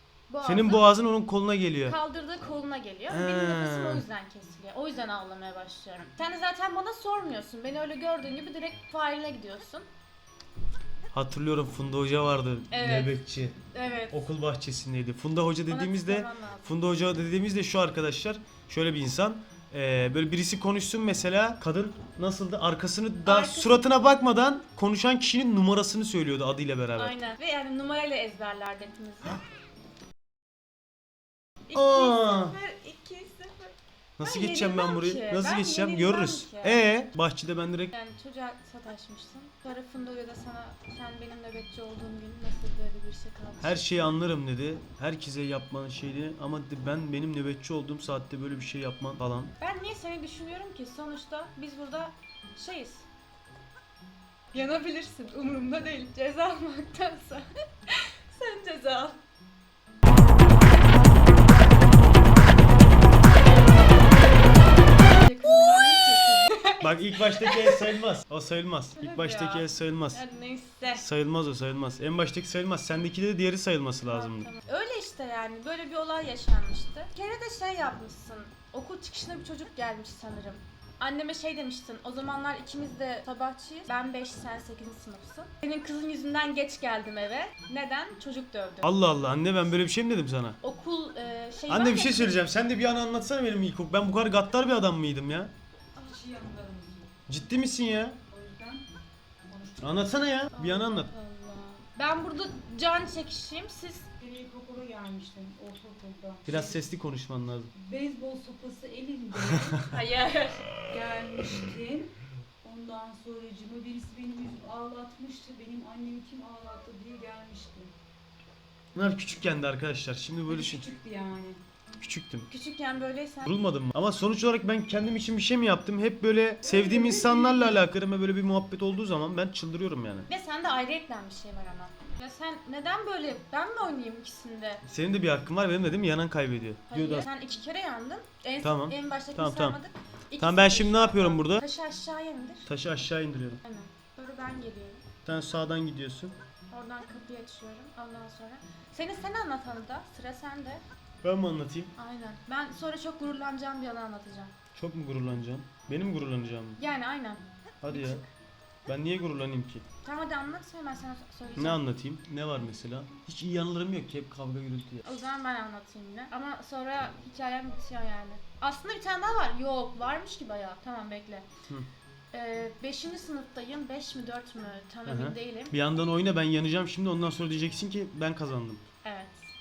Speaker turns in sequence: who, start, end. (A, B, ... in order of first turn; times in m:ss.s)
0:00.3-0:01.0 A
0:00.4-0:02.0 B
0:01.9-0:09.8 A
0:02.4-0:02.7 C
0:03.1-0:04.0 B
0:04.2-0:05.5 C
0:08.5-0:09.1 C
0:11.1-0:13.6 B
0:12.7-0:13.1 A
0:13.8-0:14.1 A
0:14.1-0:27.1 B
0:15.7-0:16.6 A
0:23.2-0:23.9 A
0:27.0-0:29.3 A
0:31.7-0:32.6 B
0:31.7-0:33.3 A
0:32.5-0:33.7 C
0:34.2-0:37.9 B
0:34.2-0:36.7 A
0:38.0-0:44.0 A
0:38.6-0:39.8 C
0:40.6-0:41.1 C
0:42.5-0:43.2 C
0:43.6-0:49.5 B
0:49.7-0:52.1 A
0:50.8-0:51.7 C
0:54.5-0:54.8 C
0:54.7-0:57.2 A
0:56.9-0:58.8 C
0:58.8-0:59.1 A
1:05.0-1:06.5 C
1:05.2-1:06.8 A
1:06.8-1:10.2 B
1:07.4-1:07.9 A
1:09.0-1:10.9 A
1:10.9-1:14.5 B
1:14.1-1:20.3 A
1:16.6-1:17.1 C
1:18.3-1:18.8 C
1:19.8-1:20.6 C
1:21.0-1:25.0 A
1:22.6-1:25.7 C
1:25.5-1:28.9 A
1:28.8-1:30.6 B
1:30.6-1:32.4 A
1:31.7-1:35.5 B
1:36.0-1:37.1 C
1:37.3-1:38.2 B
1:38.3-1:38.8 C
1:39.5-1:40.0 C
1:39.8-1:41.1 B
1:40.5-1:44.1 A
1:44.1-1:46.9 C
1:46.5-1:47.7 B
1:47.7-1:50.1 C
1:49.4-1:49.8 B
1:49.8-1:50.7 A
1:50.7-1:57.9 C
1:58.9-2:00.9 B
2:00.5-2:01.6 C
2:02.0-2:02.5 B
2:02.5-2:03.5 A
2:03.4-2:10.3 B
2:06.6-2:07.8 C
2:10.3-2:14.8 A
2:14.8-2:17.3 B
2:16.9-2:22.6 A
2:18.6-2:19.8 B
2:20.4-2:21.6 B
2:22.6-2:23.6 B
2:23.6-2:25.0 A
2:25.2-2:26.3 B
2:26.7-2:30.8 A
2:30.2-2:30.5 C
2:31.2-2:31.9 B
2:32.0-2:34.5 A
2:34.7-2:36.8 B
2:36.8-2:38.2 A
2:37.8-2:38.2 B
2:38.9-2:39.8 B
2:40.0-2:41.8 A
2:41.6-2:45.0 B
2:45.2-2:51.4 A
2:52.3-2:55.7 A
2:53.9-2:55.4 C
2:55.0-2:58.8 B